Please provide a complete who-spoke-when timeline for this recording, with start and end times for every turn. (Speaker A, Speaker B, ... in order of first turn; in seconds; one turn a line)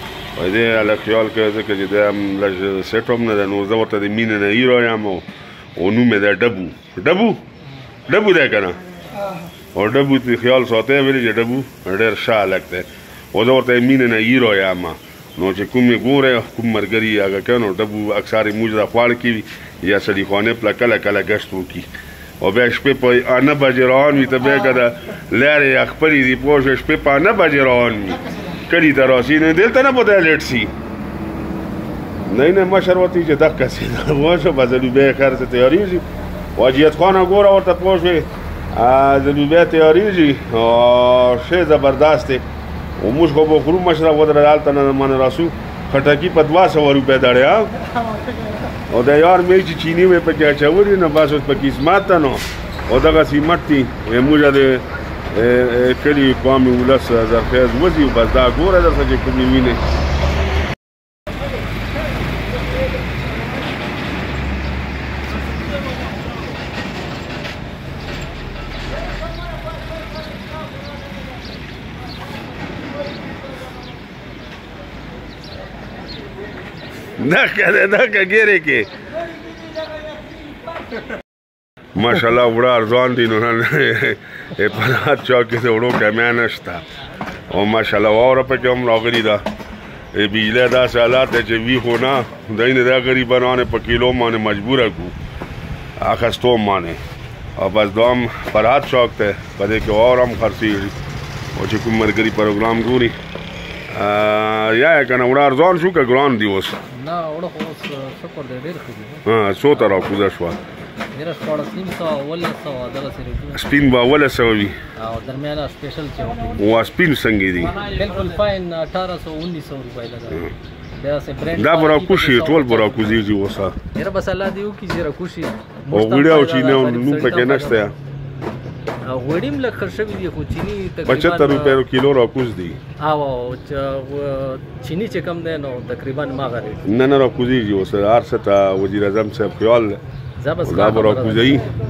Speaker A: 0.3-7.4
Speaker A: 8.1-8.8
Speaker A: 9.7-21.9
Speaker A: 22.4-30.7
Speaker A: 32.2-36.0
Speaker A: 36.5-42.4
Speaker A: 43.0-47.7
Speaker A: 48.9-59.8
Speaker A: 77.2-78.9
Speaker A: 82.0-86.8
Speaker A: 87.5-89.4
Speaker A: 90.1-95.1
Speaker A: 96.0-97.0
Speaker A: 97.5-100.9
Speaker A: 101.5-103.1
Speaker A: 103.9-106.8
Speaker B: 106.9-109.2
Speaker A: 109.2-110.6
Speaker B: 111.1-113.6
Speaker A: 113.5-114.8
Speaker B: 115.0-116.6
Speaker A: 116.6-117.8
Speaker B: 117.7-120.4
Speaker B: 121.0-123.2
Speaker A: 121.5-123.8
Speaker B: 123.9-127.9
Speaker A: 125.9-127.9
Speaker B: 129.0-131.8
Speaker A: 131.1-132.8
Speaker B: 133.0-136.8
Speaker A: 136.8-140.0
Speaker B: 140.4-141.6
Speaker A: 140.6-141.7